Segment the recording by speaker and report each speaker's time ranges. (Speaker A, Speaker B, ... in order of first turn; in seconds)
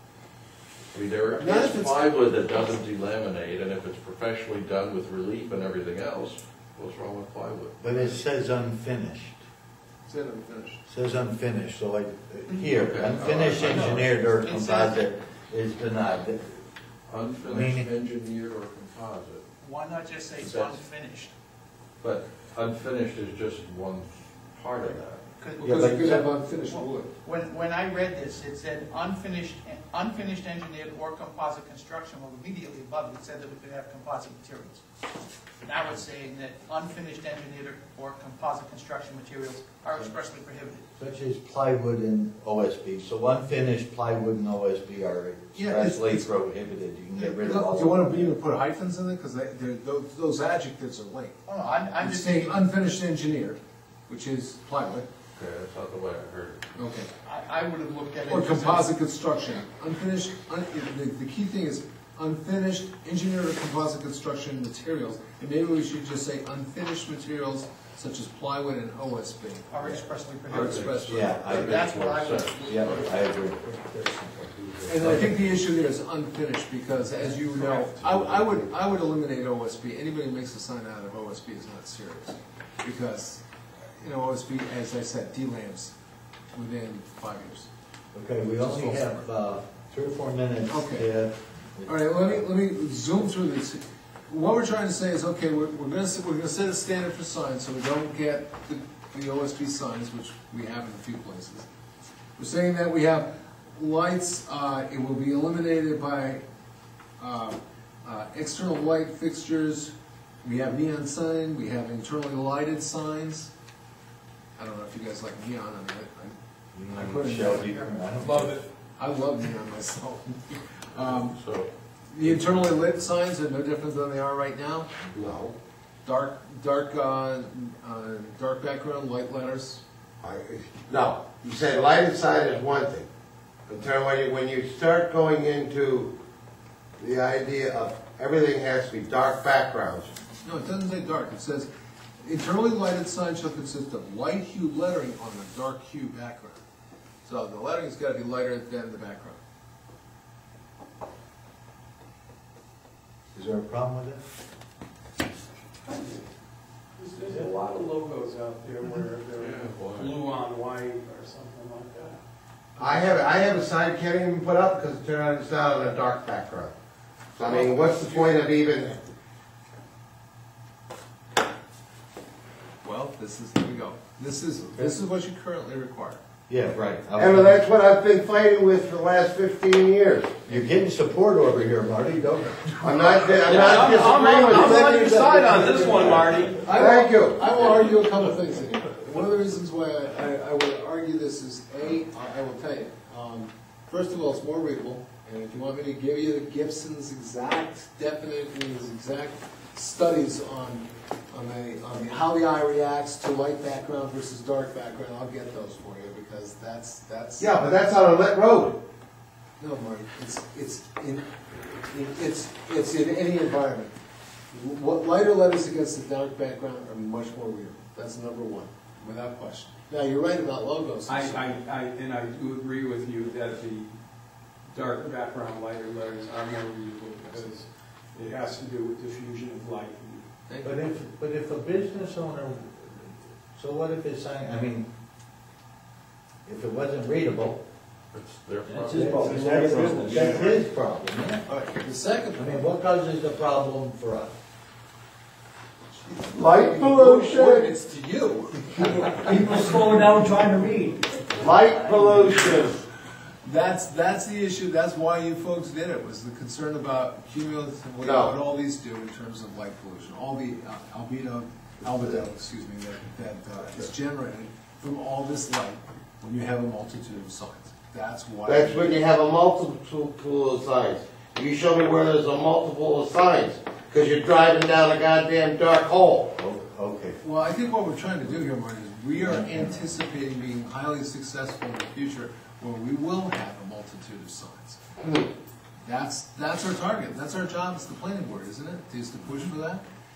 Speaker A: 0.9-8.2, 12.6-14.1, 17.1-19.4, 20.4-20.8, 22.0-25.2, 55.3-56.8, 70.5-72.9, 77.7-78.4, 121.1-121.7, 122.2-122.8, 159.3-160.2, 238.1-240.4
Speaker B: 1.4-1.9, 10.1-10.8, 25.6-27.1, 45.5-46.3, 47.3-51.4, 52.0-55.0, 56.8-57.1, 58.2-69.8, 70.5-71.5, 74.8-83.4, 83.9-85.9, 86.5-87.7, 88.6-89.2, 90.7-91.1, 91.8-101.7, 102.4-106.4, 107.2-113.5, 114.6-116.4, 116.9-117.8, 119.0-121.4, 122.1-124.9, 126.0-129.8, 140.4-141.7, 142.2-146.6, 147.2-149.4, 167.4-168.4, 172.8-176.2, 186.4-207.5, 209.6-213.9, 214.5-221.6, 227.2-227.5, 230.5-230.8, 241.4-242.7, 245.9-249.8, 253.4-268.9, 277.2-284.8, 285.8-289.8
Speaker C: 7.8-9.4, 10.8-16.6, 17.4-17.9, 25.6-26.3, 41.0-48.3, 70.5-71.9, 72.6-75.4, 88.1-92.4, 116.7-118.6, 153.3-154.2, 176.5-177.6, 180.4-186.5, 230.6-234.9, 236.4-237.6, 238.8-241.4, 242.3-244.3, 276.3-277.2, 279.1-279.8
Speaker D: 13.6-15.0, 19.6-21.3, 25.4-34.8, 35.6-40.8, 51.5-52.7, 57.2-59.0, 69.7-73.2
Speaker E: 125.1-125.5, 130.2-133.1, 133.7-136.1, 137.0-140.1, 162.8-166.7, 167.3-169.1, 177.2-180.4, 182.8-185.2, 186.7-187.7, 207.4-208.8, 246.3-247.7, 251.3-252.8, 258.0-258.4, 268.4-276.3
Speaker F: 155.8-156.2, 157.0-162.2, 183.5-186.8, 221.1-223.9, 224.7-230.2, 239.7-240.1, 249.5-250.8
Speaker G: 239.2-240.4, 249.2-251.0